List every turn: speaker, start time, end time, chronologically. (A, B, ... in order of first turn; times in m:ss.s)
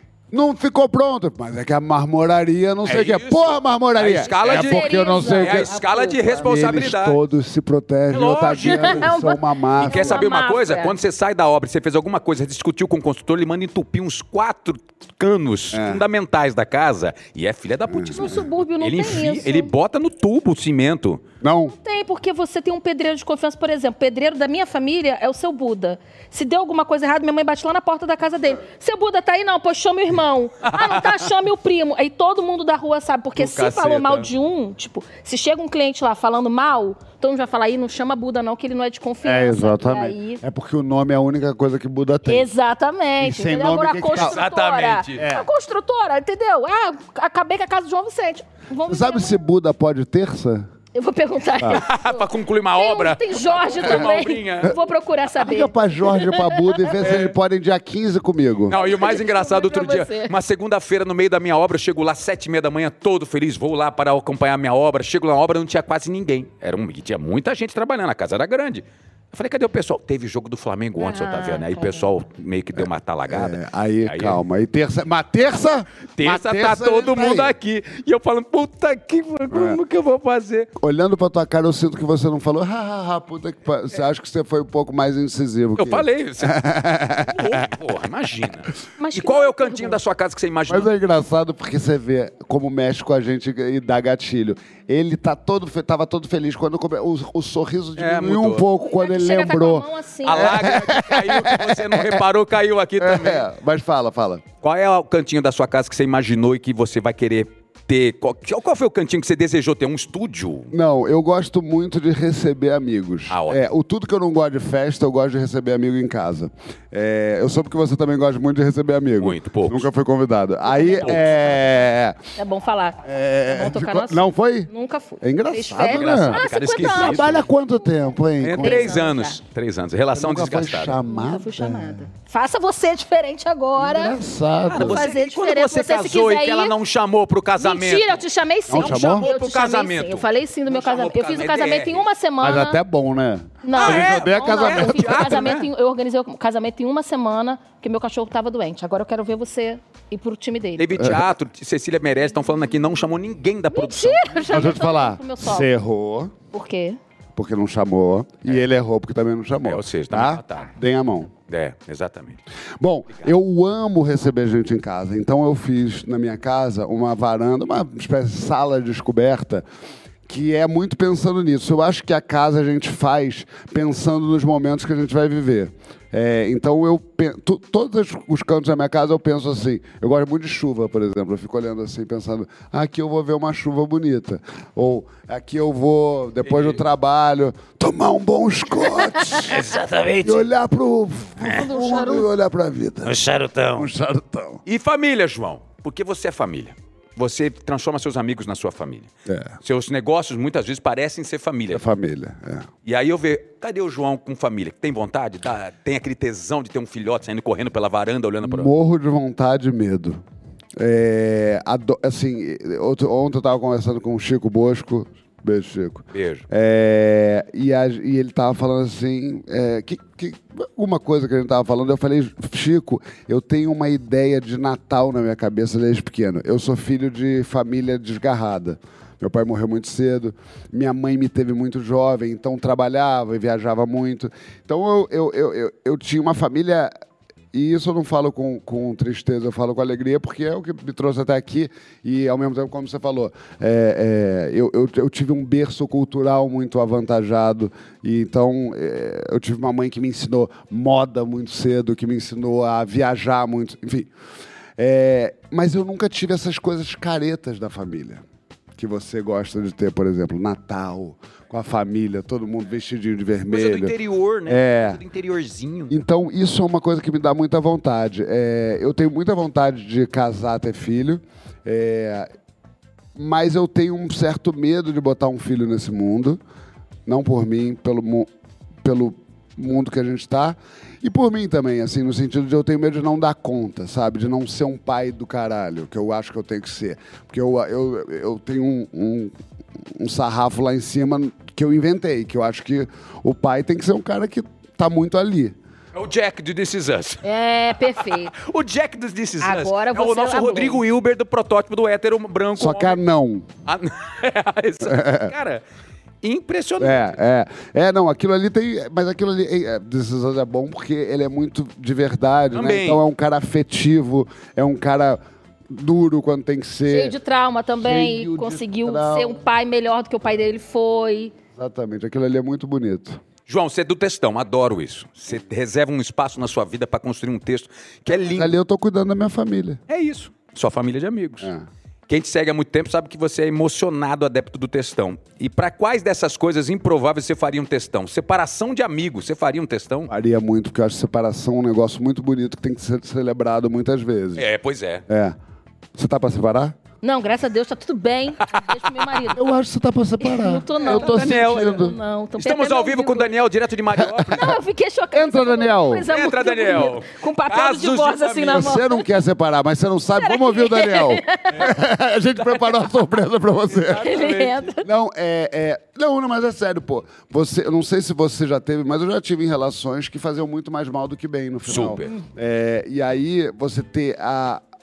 0:00.3-0:05.7 A
0:02.8-0:07.2 B
0:04.2-0:06.5 C
0:06.4-0:10.2 A
0:08.1-0:09.1 B
0:08.6-0:10.9 C
0:09.8-0:21.2 B
0:15.7-0:16.0 A
0:17.9-0:18.4 A
0:18.1-0:19.7 C
0:21.4-0:21.7 A
0:21.7-0:40.4 C
0:30.7-0:31.2 B
0:33.4-0:34.3 B
0:39.2-0:42.5 A
0:42.2-0:49.4 C
0:43.2-0:44.4 A
0:44.1-0:45.2 B
0:45.2-0:45.4 A
0:48.9-0:50.7 A
0:50.9-0:56.9 C
0:51.6-0:54.7 B
0:55.4-0:58.8 A
0:57.0-0:57.4 B
0:58.7-1:14.4 B
0:58.7-1:00.3 C
1:11.0-1:12.1 C
1:12.8-1:17.6 A
1:16.1-1:20.7 B
1:19.5-1:19.8 A
1:20.8-1:27.7 A
1:25.8-1:26.6 B
1:27.2-1:30.9 B
1:29.0-1:30.0 C
1:30.7-1:42.3 A
1:38.0-1:38.7 B
1:38.8-1:40.5 C
1:40.2-1:43.4 B
1:43.0-1:44.4 A
1:44.6-1:50.7 B
1:50.7-2:02.2 A
1:53.3-1:53.6 B
1:59.2-1:59.9 B
2:00.6-2:01.6 C
2:02.4-2:07.4 C
2:03.0-2:04.7 A
2:05.2-2:08.9 A
2:05.8-2:07.4 B
2:08.4-2:11.0 B
2:08.6-2:09.4 C
2:10.1-2:12.1 A
2:11.1-2:14.2 C
2:13.8-2:15.0 A
2:14.7-2:22.1 B
2:14.8-2:16.7 C
2:17.6-2:22.8 C
2:18.7-2:19.3 A
2:22.4-2:25.4 A
2:23.6-2:30.9 C
2:23.7-2:25.6 B
2:30.8-2:34.5 B
2:33.7-2:35.7 C
2:34.5-2:36.3 A
2:36.5-2:37.0 C
2:37.4-2:41.3 A
2:39.6-2:40.7 B
2:41.5-2:42.4 B
2:42.8-2:49.6 A
2:50.3-3:09.6 A
3:06.4-3:06.8 B
3:09.3-3:10.5 B
3:10.2-3:13.2 A
3:11.6-3:12.2 C
3:13.0-3:13.9 B
3:13.7-3:14.6 A
3:14.6-3:19.1 B
3:19.3-3:19.6 A
3:19.6-3:21.8 B
3:21.7-3:22.7 A
3:22.8-3:28.7 B
3:28.4-3:30.2 A
3:30.8-3:56.9 A
3:36.1-3:36.4 B
3:57.5-4:14.1 A
4:14.8-4:18.2 A
4:18.8-4:23.9 A
4:23.5-4:26.0 B
4:24.4-4:25.0 A
4:25.9-4:32.3 A
4:33.1-4:36.4 A
4:37.1-4:38.3 A
4:38.8-4:49.3 A
4:49.9-4:55.6 A
4:55.9-4:57.2 B
4:57.2-4:58.3 C
4:57.9-5:03.0 B
4:59.4-5:00.8 C
5:02.6-5:03.5 A
5:03.6-5:05.6 B
5:04.8-5:05.3 A
5:06.2-5:07.1 B
5:06.8-5:17.2 A
5:12.5-5:13.0 B
5:16.9-5:21.3 C
5:17.8-5:19.4 A
5:21.6-5:23.2 A
5:23.5-5:28.5 B
5:28.1-5:29.8 A
5:29.9-5:31.5 B
5:31.4-5:31.6 A
5:32.1-5:40.1 B
5:40.1-5:44.4 A
5:44.4-5:45.0 B
5:45.1-5:45.4 A
5:45.9-5:46.8 A
5:47.0-5:49.4 C
5:49.3-5:51.9 A
5:50.2-5:53.3 C
5:50.9-5:54.6 B
5:54.0-5:54.4 A
5:54.3-5:59.0 C
5:55.1-5:56.1 A
5:56.1-5:58.7 B
5:58.5-6:04.2 A
6:00.2-6:01.7 C
6:03.8-6:04.6 B
6:04.0-6:04.8 C
6:04.8-6:14.6 A
6:11.6-6:12.1 B